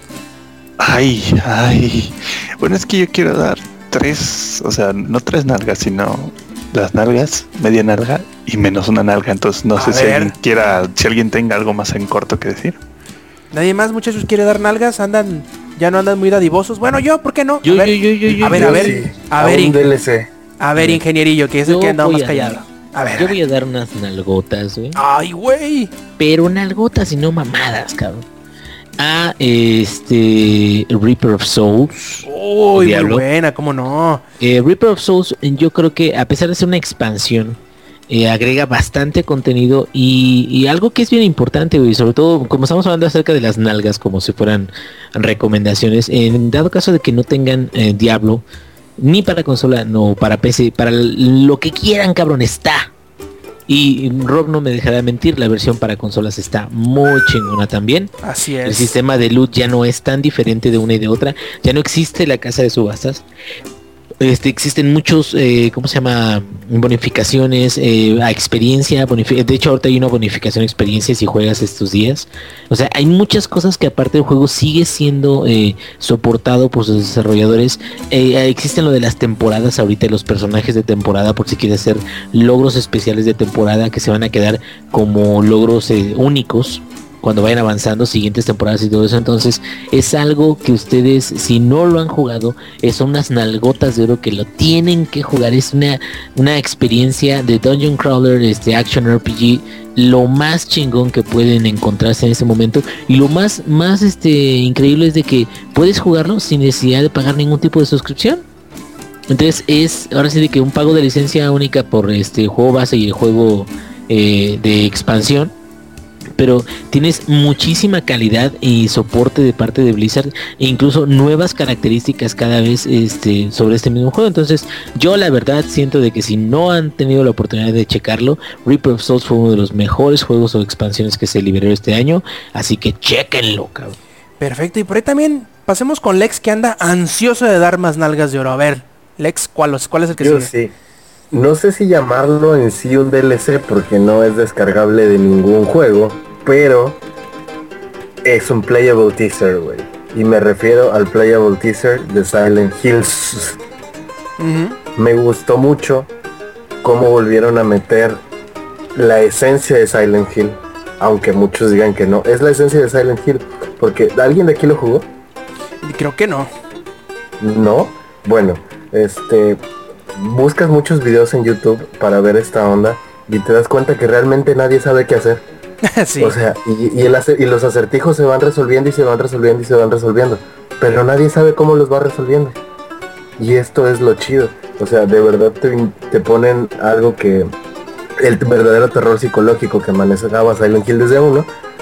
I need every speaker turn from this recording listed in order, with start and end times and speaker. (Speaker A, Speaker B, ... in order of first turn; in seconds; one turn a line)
Speaker A: 0.8-12.8
Speaker B: 9.8-10.3
Speaker B: 13.5-19.9
Speaker C: 17.6-18.9
Speaker D: 18.3-20.3
Speaker B: 20.6-23.4
Speaker C: 21.7-22.6
Speaker C: 23.2-25.0
Speaker B: 24.9-25.9
Speaker C: 26.2-28.3
Speaker C: 29.0-33.2
Speaker B: 32.3-34.2
Speaker C: 34.4-37.6
Speaker C: 38.1-48.4
Speaker C: 49.0-52.9
Speaker C: 53.7-58.1
Speaker B: 58.2-59.0
Speaker C: 58.6-63.2
Speaker C: 64.2-108.4
Speaker C: 109.3-115.5
Speaker C: 116.4-134.0
Speaker B: 134.4-140.5
Speaker D: 140.2-140.7
Speaker D: 141.3-147.0
Speaker D: 148.2-153.6
Speaker B: 154.4-154.8
Speaker D: 155.0-156.1
Speaker D: 156.8-158.2
Speaker D: 158.9-165.1
Speaker B: 165.8-166.5
Speaker D: 167.4-169.6
Speaker D: 170.2-175.4
Speaker B: 175.9-176.4
Speaker D: 176.2-182.6
Speaker D: 183.4-187.5
Speaker D: 188.2-191.5